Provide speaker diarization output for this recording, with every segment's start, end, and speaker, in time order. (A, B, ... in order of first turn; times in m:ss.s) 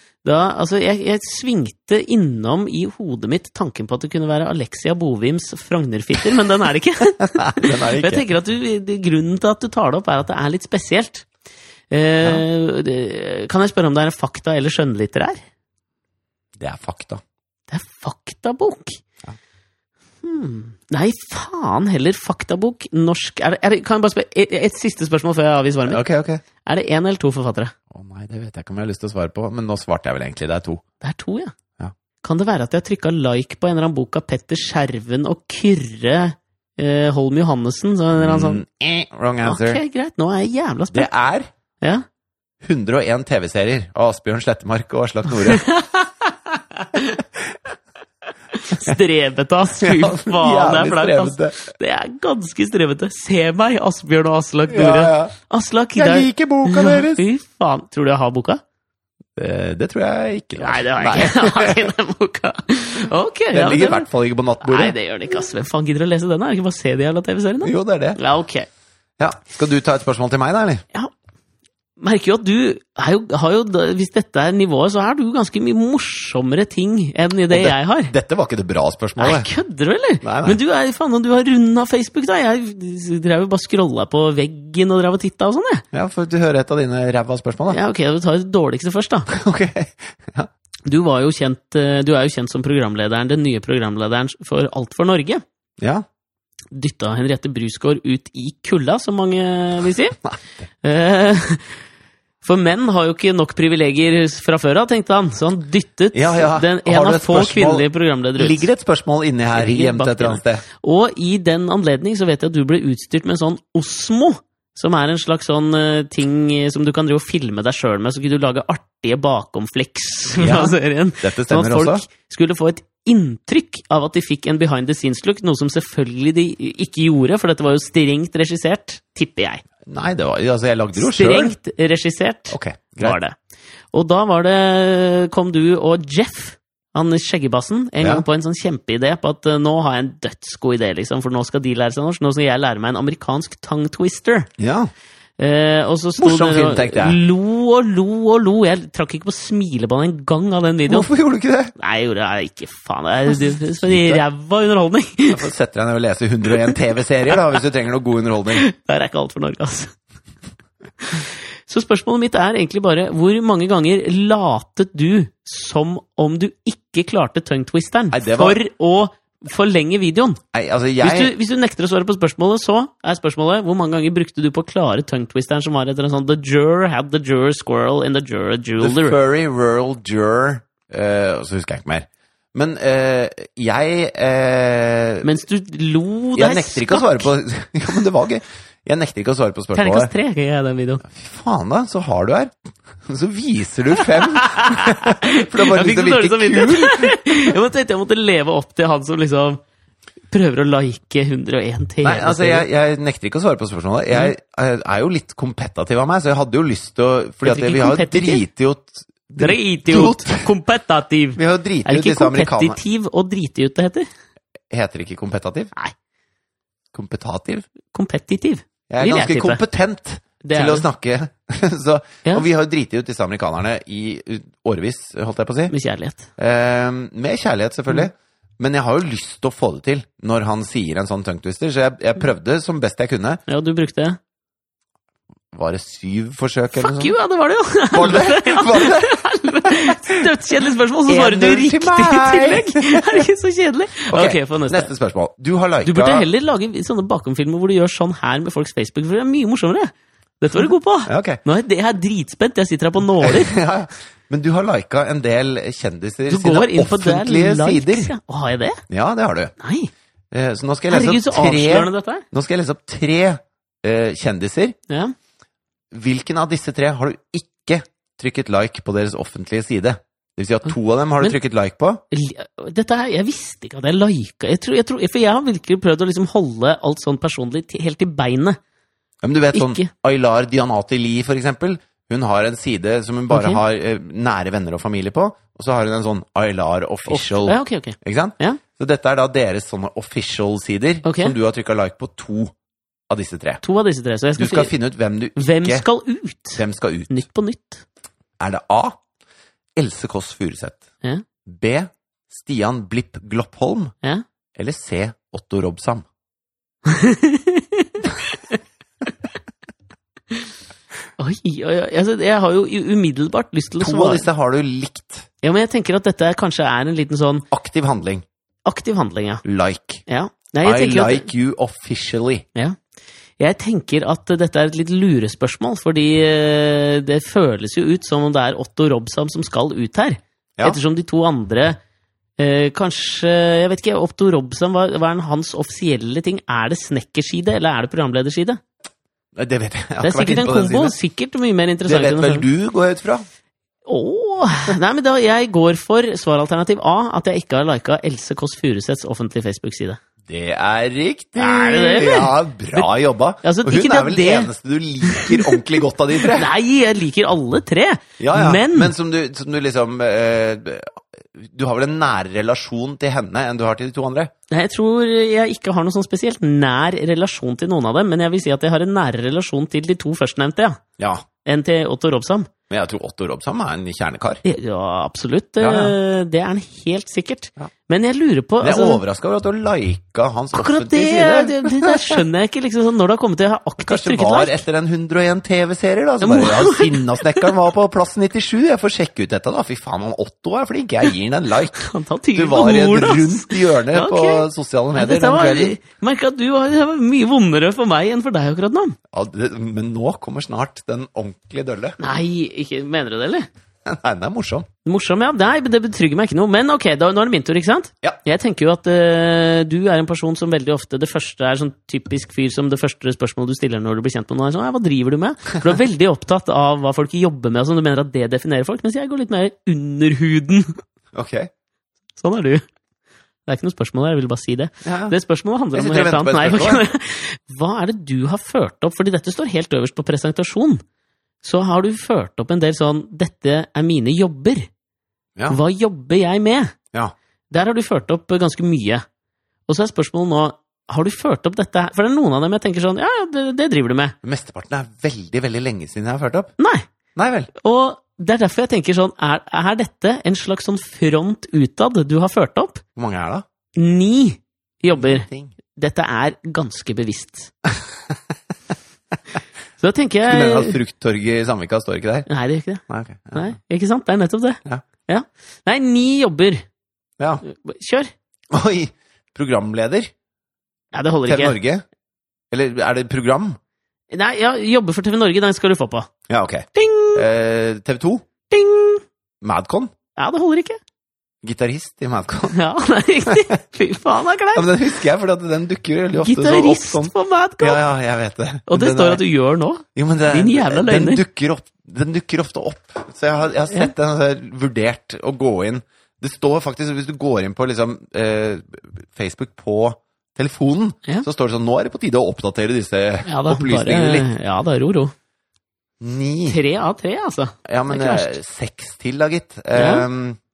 0:00.2-0:11.3 A
0:07.4-0:08.2 B
0:11.9-0:15.4 A
0:16.6-0:17.2 B
0:17.7-0:19.0 A
0:20.2-0:26.0 A
0:25.9-0:26.4 B
0:26.6-0:27.7 A
0:27.9-0:30.8 B
0:31.0-0:31.6 A
0:32.2-0:38.6 A
0:38.2-0:39.8 B
0:39.4-0:41.1 A
0:40.9-0:41.5 B
0:42.6-0:45.7 B
0:45.5-0:47.2 A
0:48.5-0:58.6 A
0:49.8-0:51.6 B
0:54.7-0:55.3 B
0:56.0-0:57.2 B
0:59.4-1:01.9 B
1:00.6-1:04.1 A
1:03.5-1:05.0 B
1:04.6-1:08.7 A
1:07.6-1:08.2 B
1:09.2-1:10.8 B
1:12.0-1:18.1 A
1:17.5-1:19.5 B
1:19.2-1:25.8 A
1:20.2-1:20.6 B
1:25.9-1:27.8 B
1:27.7-1:29.3 A
1:29.3-1:30.5 B
1:30.9-1:35.4 A
1:35.8-1:36.0 B
1:36.7-1:40.2 A
1:40.8-1:41.7 A
1:42.4-1:48.7 A
1:46.1-1:47.9 B
1:48.4-1:50.6 B
1:49.5-2:09.6 A
2:00.4-2:02.0 B
2:09.9-2:11.5 B
2:11.0-2:13.4 A
2:12.5-2:13.2 B
2:13.9-2:24.5 A
2:24.6-2:24.9 B
2:25.4-2:31.1 A
2:26.2-2:27.2 B
2:30.9-2:31.7 B
2:31.8-2:35.5 A
2:33.5-2:34.2 B
2:35.3-2:38.6 B
2:38.5-2:39.9 A
2:41.0-2:50.4 A
2:48.1-2:48.6 B
2:50.5-2:51.3 B
2:51.0-2:59.2 A
2:58.8-3:05.3 B
3:05.2-3:07.3 A
3:06.4-3:10.1 B
3:09.8-3:11.0 A
3:11.0-3:17.2 B
3:14.0-3:19.6 A
3:20.3-3:22.7 A
3:22.0-3:30.5 B
3:27.4-3:28.4 A
3:29.4-3:34.1 A
3:31.4-3:32.8 B
3:34.7-3:35.7 B
3:36.9-3:37.7 B
3:37.9-3:39.6 A
3:38.9-3:45.7 B
3:40.4-3:40.9 A
3:45.7-3:46.3 A
3:46.4-3:53.4 B
3:53.5-3:54.2 A
3:55.5-3:57.1 B
3:56.8-4:04.9 A
3:57.9-4:00.2 B
4:01.1-4:03.3 B
4:04.1-4:06.3 B
4:05.8-4:13.6 A
4:10.6-4:11.4 B
4:13.2-4:18.1 B
4:16.3-4:18.8 A
4:18.9-4:19.5 B
4:19.6-4:19.9 A
4:20.3-4:24.8 B
4:20.9-4:22.2 A
4:24.9-4:25.1 A
4:25.9-4:32.0 B
4:32.1-4:38.6 A
4:39.2-4:52.5 B
4:39.5-4:39.9 A
4:43.3-4:43.6 A
4:47.1-4:48.6 A
4:51.0-4:51.4 A
4:53.1-4:53.6 B
4:53.6-4:54.7 A
4:54.4-4:55.8 B
4:55.4-4:57.8 A
4:56.6-4:57.2 B
4:58.4-4:59.0 B
4:59.8-5:00.8 B
5:01.5-5:03.9 B
5:04.6-5:06.1 B
5:06.9-5:08.6 A
5:11.2-5:14.3 A
5:13.8-5:15.3 B
5:15.4-5:17.5 A
5:17.5-5:18.2 B
5:18.7-5:19.4 A
5:19.4-5:20.0 B
5:20.1-5:21.3 A
5:20.6-5:22.4 B
5:23.4-5:31.8 A
5:32.4-5:38.6 A
5:39.4-5:41.0 B
5:40.0-5:42.5 A
5:41.9-5:43.2 B
5:43.9-5:50.0 A
5:50.3-5:56.5 B
5:51.4-5:52.9 A
5:53.4-5:54.5 A
5:55.0-5:55.6 A
5:56.2-5:58.9 A
5:58.2-6:04.3 B
6:04.5-6:10.8 A
6:11.0-6:11.2 B
6:11.4-6:12.5 A
6:12.7-6:14.4 B
6:14.4-6:19.0 A
6:15.6-6:16.0 B
6:18.6-6:22.2 B
6:20.5-6:24.6 A
6:23.8-6:31.8 B
6:26.2-6:27.5 A
6:31.8-6:39.0 A
6:32.4-6:35.8 B
6:39.1-6:42.0 B
6:42.0-6:43.5 A
6:43.8-6:44.7 B
6:44.8-7:00.8 A
7:01.1-7:01.5 B
7:02.2-7:02.6 A
7:03.5-7:10.8 A
7:04.8-7:05.2 B
7:05.7-7:06.8 B
7:11.4-7:14.7 A
7:15.5-7:16.8 A
7:17.5-7:19.0 A
7:19.7-7:24.2 A
7:24.2-7:26.5 B
7:26.6-7:26.9 A
7:27.2-7:27.5 B
7:27.6-7:32.8 A
7:33.0-7:33.4 B
7:33.8-7:37.5 A
7:35.0-7:35.5 B
7:37.7-7:38.4 B
7:39.8-7:40.8 A
7:40.3-7:42.3 B
7:42.3-7:46.6 A
7:42.9-7:43.6 B
7:47.4-7:48.1 A
7:48.5-7:50.1 B
7:50.9-7:51.6 A
7:51.3-7:51.8 B
7:52.5-7:53.6 B
7:54.1-7:56.1 A
7:56.3-7:58.2 B
7:56.8-7:57.2 A
7:58.5-7:59.0 A
7:59.4-7:59.9 B
8:00.2-8:00.8 A
8:01.4-8:02.6 B
8:02.5-8:04.7 A
8:04.5-8:09.2 B
8:06.2-8:07.8 A
8:08.7-8:11.2 A
8:10.0-8:24.3 B
8:23.3-8:25.1 A
8:26.0-8:26.6 B
8:26.5-8:28.4 A
8:27.7-8:30.4 B
8:29.8-8:30.1 A